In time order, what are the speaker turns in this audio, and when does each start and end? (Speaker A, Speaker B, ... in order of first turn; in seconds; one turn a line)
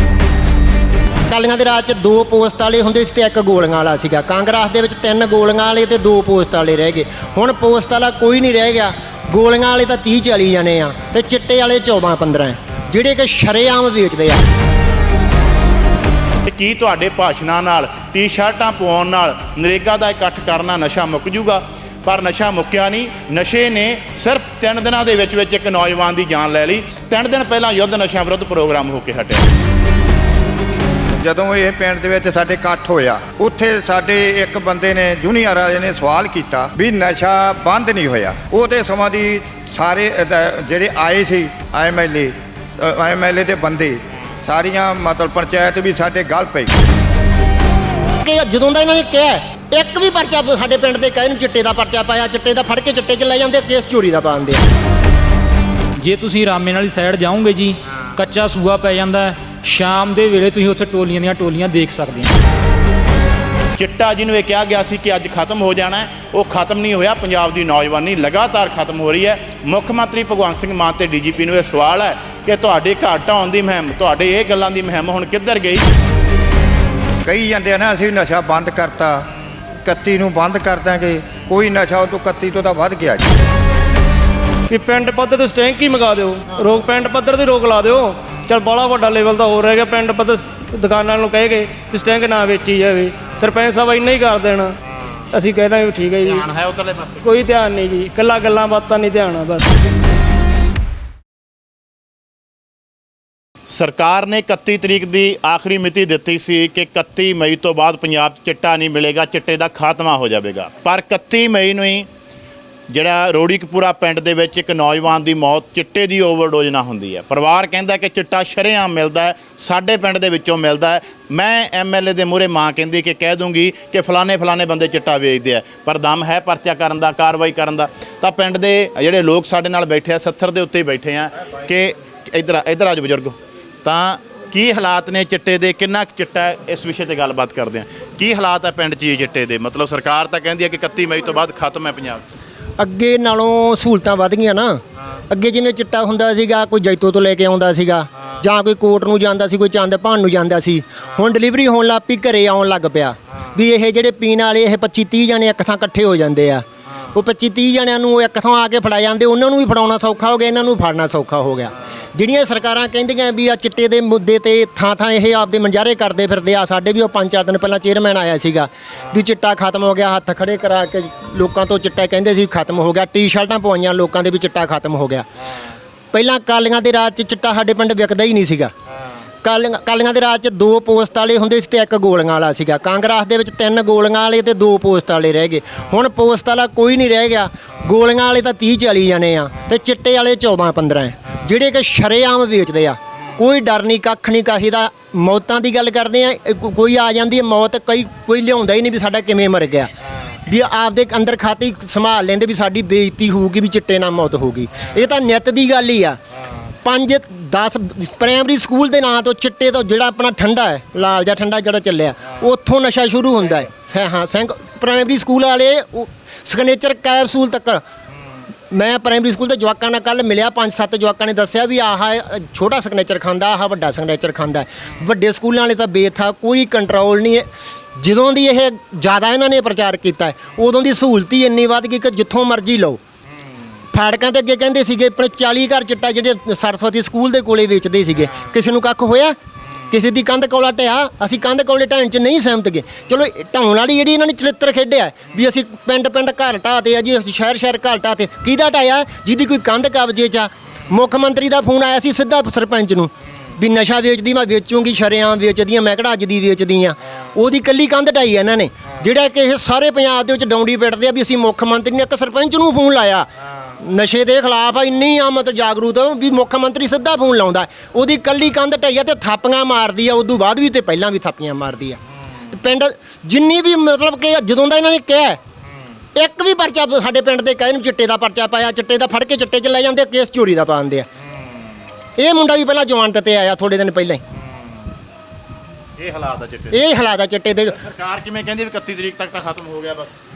Speaker A: 1.3-14.4
Speaker B: 16.4-29.4
Speaker C: 31.2-46.7
Speaker A: 48.2-54.6
Speaker D: 56.0-62.4
Speaker B: 63.8-75.9
Speaker C: 77.2-79.2
Speaker C: 79.8-83.3
Speaker E: 84.7-94.8
Speaker E: 95.3-96.4
Speaker B: 96.2-97.3
Speaker E: 97.2-99.8
Speaker B: 103.7-112.1
Speaker B: 112.9-142.2
Speaker A: 142.8-175.3
Speaker A: 176.1-178.7
Speaker A: 179.4-199.9
Speaker A: 200.5-206.2
Speaker A: 206.8-217.8
Speaker A: 218.7-233.0
Speaker A: 233.9-239.4
Speaker A: 239.9-263.3
Speaker A: 263.8-272.0
Speaker A: 272.5-275.4
Speaker A: 276.1-281.1
Speaker A: 282.2-284.2
Speaker B: 286.0-286.9
Speaker A: 286.7-287.8
Speaker B: 287.8-290.1